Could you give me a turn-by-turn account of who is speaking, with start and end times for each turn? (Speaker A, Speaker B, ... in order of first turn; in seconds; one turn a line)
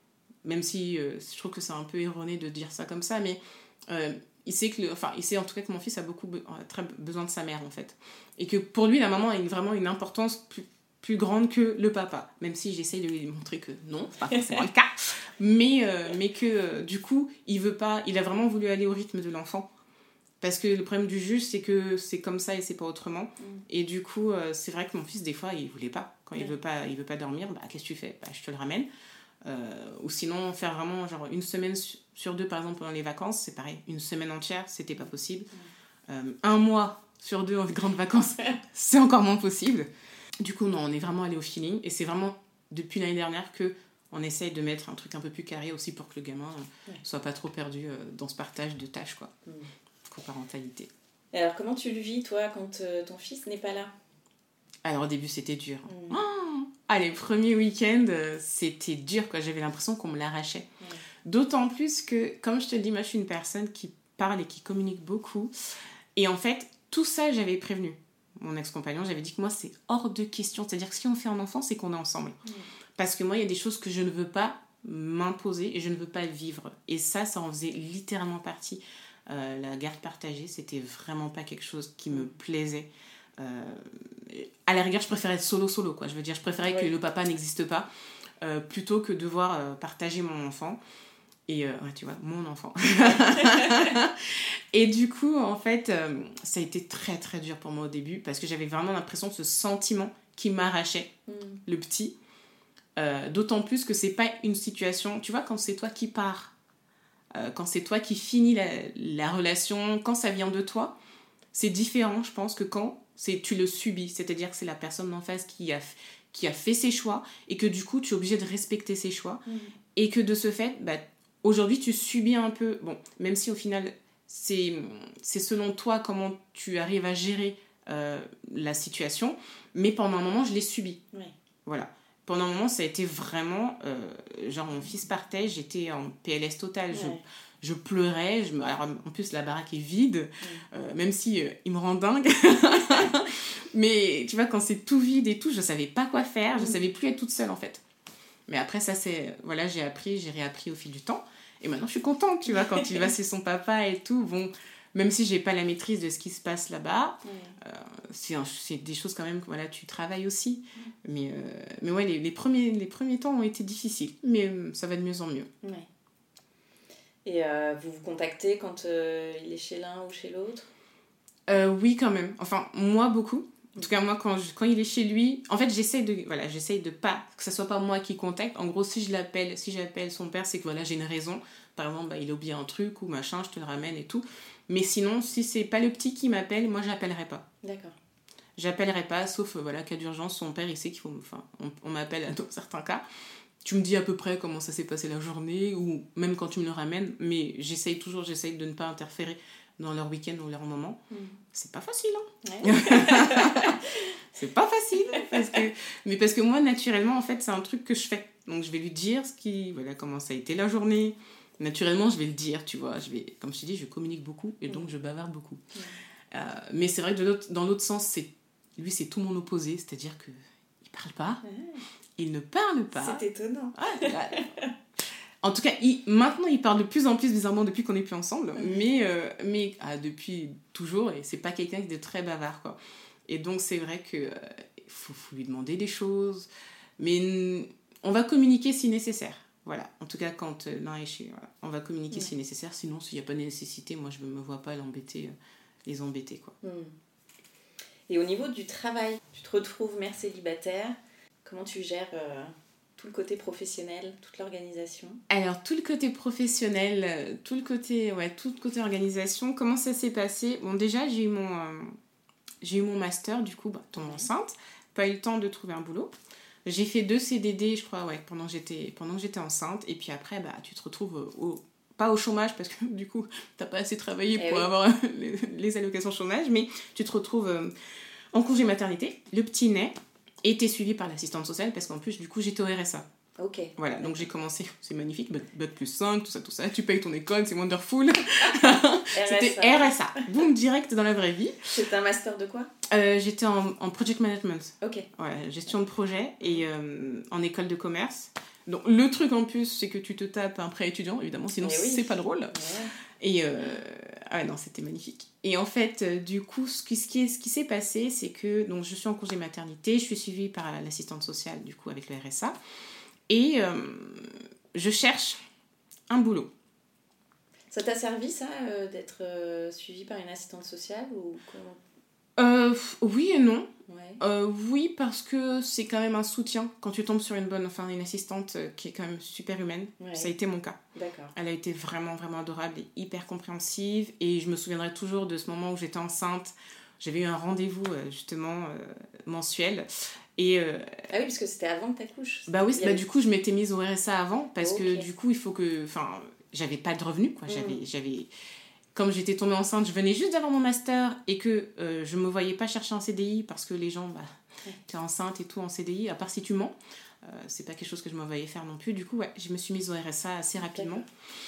Speaker A: 0.4-19.7
Speaker A: 20.4-28.9
Speaker A: 29.4-35.5
Speaker A: 36.1-39.9
Speaker A: 40.4-49.3
Speaker A: 50.1-50.9
Speaker B: 51.3-53.9
Speaker A: 54.8-60.7
Speaker B: 55.9-56.2
Speaker A: 61.2-65.5
Speaker A: 66.2-72.4
Speaker A: 73.0-82.9
Speaker A: 83.4-87.9
Speaker A: 88.4-90.8
Speaker A: 91.5-102.1
Speaker B: 93.4-93.7
Speaker B: 101.3-101.6
Speaker A: 103.0-106.5
Speaker A: 107.3-110.9
Speaker A: 111.5-119.4
Speaker B: 119.5-119.7
Speaker A: 120.0-131.0
Speaker A: 131.7-147.8
Speaker B: 136.9-137.2
Speaker A: 148.5-165.5
Speaker B: 152.5-153.1
Speaker B: 157.2-157.6
Speaker B: 167.2-170.7
Speaker A: 171.5-187.4
Speaker B: 187.6-187.9
Speaker A: 188.6-193.0
Speaker A: 193.6-201.0
Speaker B: 201.1-201.4
Speaker A: 201.5-203.8
Speaker B: 202.4-204.0
Speaker A: 204.3-215.6
Speaker A: 216.3-221.4
Speaker B: 221.4-221.8
Speaker A: 222.2-223.2
Speaker B: 223.0-224.7
Speaker A: 223.8-224.5
Speaker A: 225.4-236.5
Speaker A: 237.0-245.3
Speaker A: 245.8-246.5
Speaker B: 246.6-246.9
Speaker B: 248.1-255.2
Speaker A: 255.3-262.0
Speaker A: 262.6-266.1
Speaker B: 263.9-264.3
Speaker A: 266.6-277.7
Speaker B: 274.4-274.7
Speaker A: 278.3-283.0
Speaker B: 283.4-284.2
Speaker A: 283.8-291.8
Speaker B: 289.1-289.9
Speaker B: 291.7-292.7
Speaker A: 292.9-302.5
Speaker B: 294.8-295.1
Speaker B: 301.6-302.9
Speaker A: 303.2-312.5
Speaker A: 313.3-315.4
Speaker A: 316.1-316.5
Speaker B: 317.7-321.8
Speaker A: 322.4-323.7
Speaker B: 323.9-324.2
Speaker A: 324.2-330.8
Speaker B: 330.0-330.3
Speaker B: 330.9-331.3
Speaker A: 331.3-341.0
Speaker B: 341.1-343.0
Speaker A: 342.5-348.3
Speaker B: 344.6-345.0
Speaker B: 347.5-347.8
Speaker A: 348.9-354.3
Speaker A: 354.9-361.0
Speaker B: 360.6-361.0